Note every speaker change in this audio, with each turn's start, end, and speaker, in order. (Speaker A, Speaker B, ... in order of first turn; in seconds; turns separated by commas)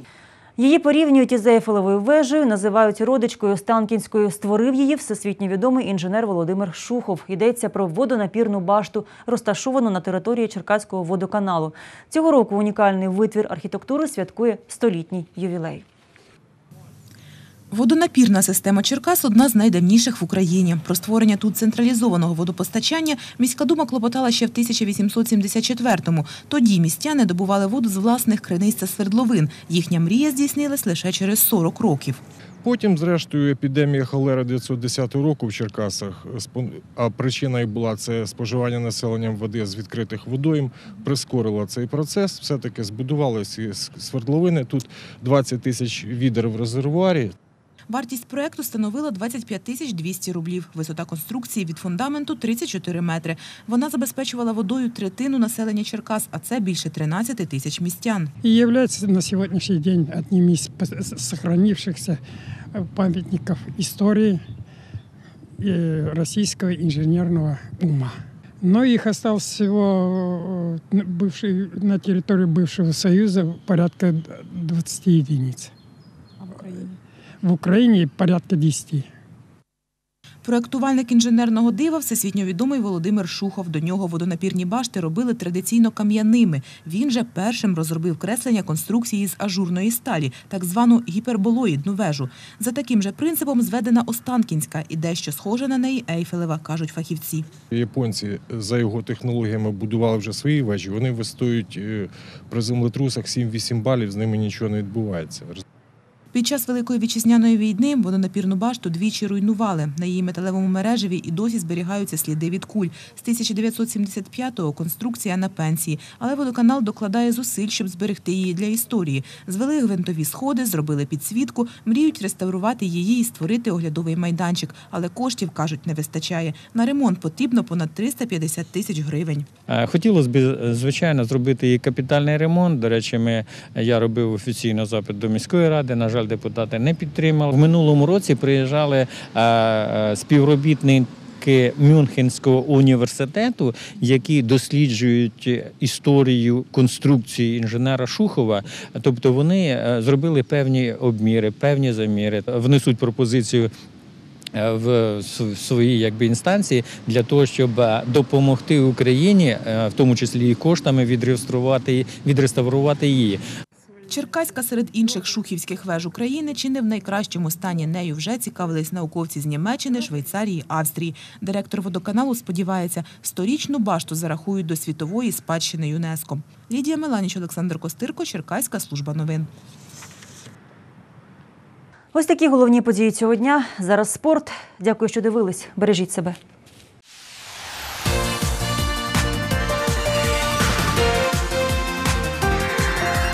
Speaker A: 0.6-15.8, Speaker B: 17.7-32.2, Speaker C: 32.6-47.3, Speaker B: 47.9-58.3, Speaker D: 58.4-62.2, Speaker D: 62.7-64.4, Speaker D: 65.6-75.7, Speaker D: 76.4-79.1, Speaker B: 80.4-97.5, Speaker C: 97.7-105.6, Speaker B: 106.3-129.5, Speaker E: 129.7-153.7, Speaker E: 154.6-163.4, Speaker B: 164.1-179.5, Speaker A: 182.1-186.4